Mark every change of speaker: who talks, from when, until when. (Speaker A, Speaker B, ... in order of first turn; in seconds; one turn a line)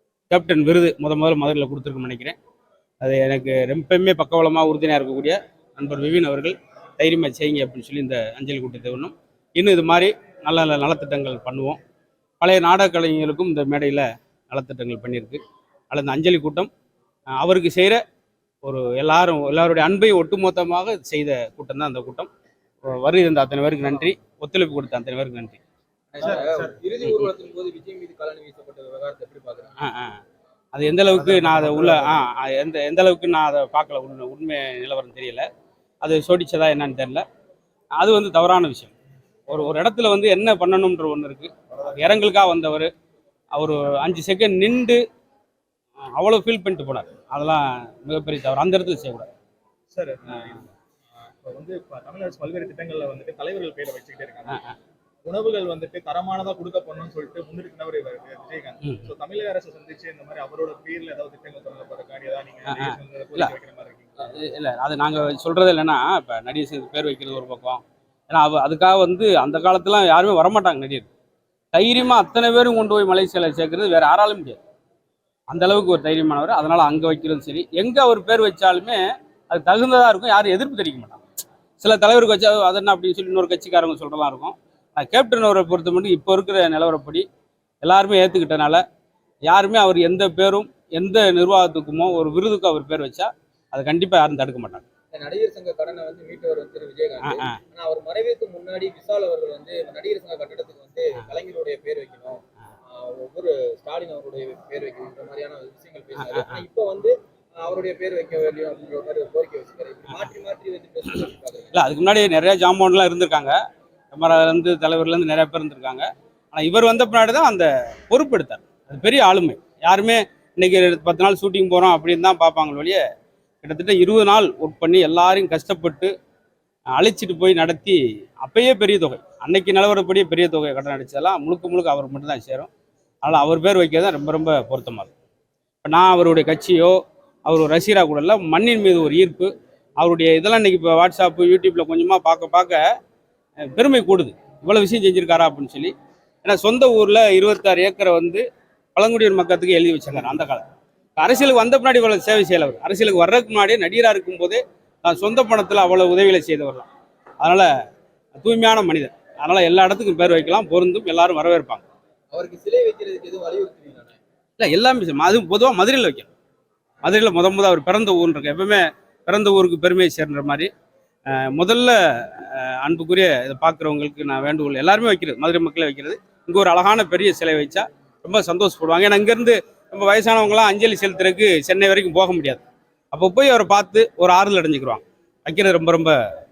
Speaker A: 0.3-2.4
Speaker A: 3.0-11.8
Speaker A: 12.4-15.4
Speaker A: 15.9-16.7
Speaker A: 17.4-18.0
Speaker A: 18.6-22.3
Speaker A: 22.9-25.6
Speaker B: 26.1-29.7
Speaker C: 26.2-26.7
Speaker A: 29.8-30.2
Speaker A: 30.7-35.5
Speaker C: 31.1-32.2
Speaker A: 36.0-37.2
Speaker A: 38.0-38.9
Speaker A: 39.5-42.9
Speaker A: 43.5-45.0
Speaker A: 46.0-49.3
Speaker C: 49.9-50.7
Speaker C: 51.4-54.6
Speaker A: 54.5-54.7
Speaker C: 55.2-64.3
Speaker A: 62.7-63.5
Speaker A: 64.2-71.1
Speaker A: 71.7-74.6
Speaker A: 75.5-81.2
Speaker A: 81.8-87.2
Speaker A: 87.8-88.8
Speaker A: 89.5-94.8
Speaker B: 95.1-111.8
Speaker A: 97.2-97.6
Speaker A: 106.2-106.6
Speaker A: 111.7-113.6
Speaker A: 114.1-123.0
Speaker A: 123.6-126.1
Speaker A: 127.0-132.7
Speaker A: 133.2-135.1
Speaker A: 135.8-142.8
Speaker A: 143.6-145.9
Speaker A: 146.4-148.4
Speaker A: 148.9-150.7
Speaker A: 151.2-156.9
Speaker A: 157.4-157.7
Speaker A: 158.3-161.8
Speaker B: 162.3-164.2
Speaker A: 164.6-166.3
Speaker A: 167.0-170.7
Speaker A: 171.3-186.2